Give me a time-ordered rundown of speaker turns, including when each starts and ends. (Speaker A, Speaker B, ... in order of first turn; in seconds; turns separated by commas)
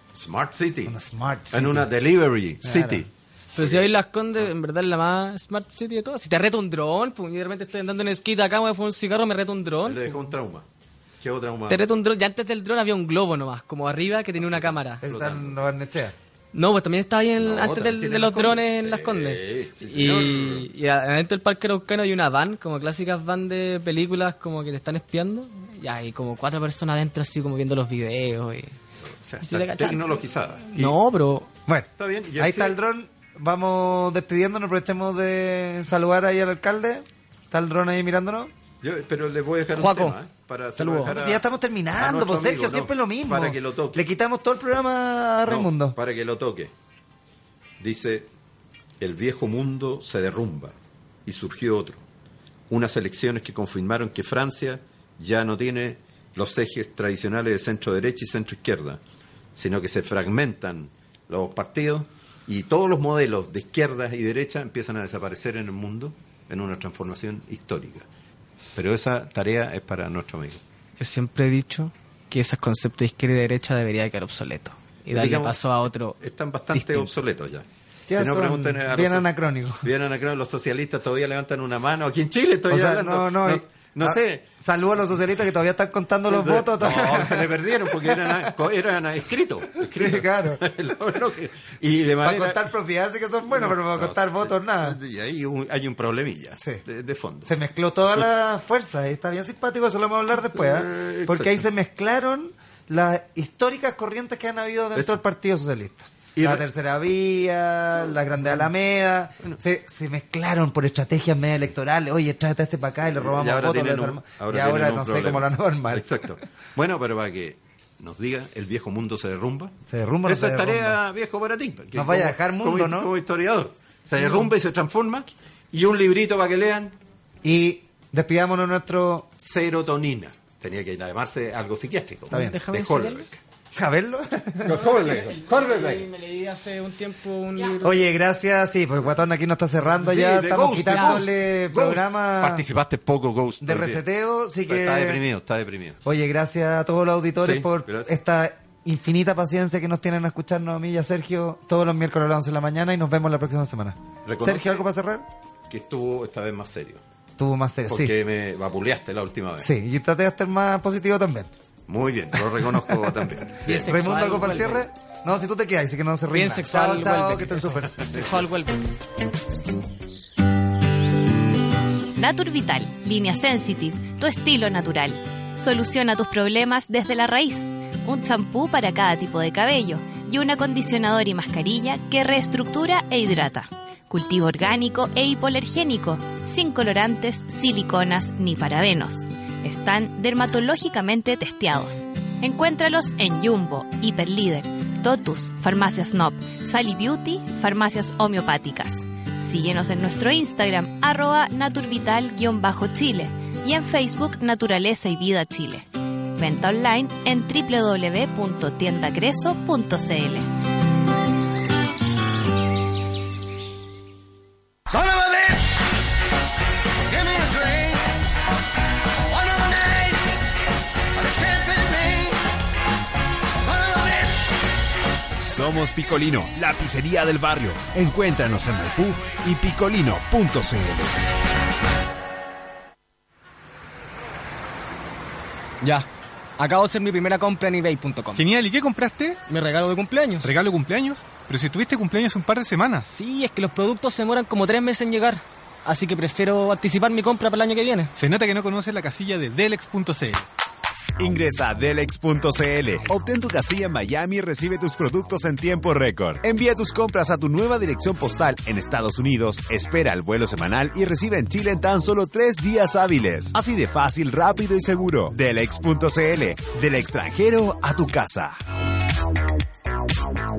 Speaker A: 0.1-0.9, Speaker B: 0.8-1.9, Speaker A: 1.5-3.9, Speaker B: 2.6-3.1, Speaker C: 3.5-10.2, Speaker A: 9.8-10.7, Speaker A: 11.2-11.8, Speaker C: 11.7-15.0, Speaker A: 14.4-15.7, Speaker B: 15.0-16.1, Speaker C: 16.5-28.7, Speaker A: 17.4-20.7, Speaker A: 29.1-31.0, Speaker C: 29.4-31.5, Speaker B: 31.7-38.5, Speaker A: 32.0-32.8, Speaker A: 38.8-44.0, Speaker C: 39.7-40.2, Speaker C: 40.8-41.1, Speaker B: 41.0-46.0, Speaker A: 45.5-46.7, Speaker A: 47.8-48.3, Speaker A: 49.0-52.0, Speaker A: 52.7-59.0, Speaker A: 59.5-68.1, Speaker A: 68.7-70.6, Speaker C: 71.0-76.2, Speaker A: 75.1-79.3, Speaker C: 76.7-77.1, Speaker B: 78.1-79.9, Speaker A: 79.8-84.5, Speaker B: 82.7-88.5, Speaker A: 86.3-92.6, Speaker B: 89.9-90.6, Speaker B: 92.2-95.0, Speaker A: 93.5-97.5, Speaker B: 97.4-116.2, Speaker A: 100.3-101.6, Speaker A: 104.9-105.2, Speaker A: 106.3-106.7, Speaker A: 108.4-108.7, Speaker A: 113.1-127.0, Speaker B: 119.9-121.0, Speaker B: 121.9-123.1, Speaker B: 127.4-129.3, Speaker A: 129.4-133.4, Speaker C: 132.3-133.2, Speaker B: 132.3-132.6, Speaker B: 133.7-134.7, Speaker A: 134.6-136.1, Speaker C: 134.7-138.1, Speaker B: 137.8-142.6, Speaker A: 139.9-144.0, Speaker C: 140.9-141.2, Speaker B: 143.6-145.2, Speaker A: 144.7-146.0, Speaker B: 146.0-155.2, Speaker A: 147.4-148.1, Speaker A: 154.2-154.9, Speaker A: 155.7-157.0, Speaker B: 157.4-158.1, Speaker A: 157.8-159.7, Speaker B: 159.6-161.5, Speaker A: 161.9-163.9, Speaker C: 163.6-164.8, Speaker B: 163.7-168.0, Speaker C: 166.3-168.9, Speaker A: 167.8-168.4, Speaker D: 172.1-210.5, Speaker E: 214.9-215.8, Speaker E: 217.1-218.1, Speaker E: 219.3-220.2, Speaker E: 221.2-222.4, Speaker E: 223.6-224.5, Speaker F: 225.4-231.1, Speaker C: 235.8-236.1, Speaker C: 236.6-238.4, Speaker G: 238.3-239.4, Speaker C: 239.5-240.5, Speaker G: 240.4-243.1, Speaker C: 243.1-248.1, Speaker G: 248.2-250.4, Speaker F: 251.2-268.6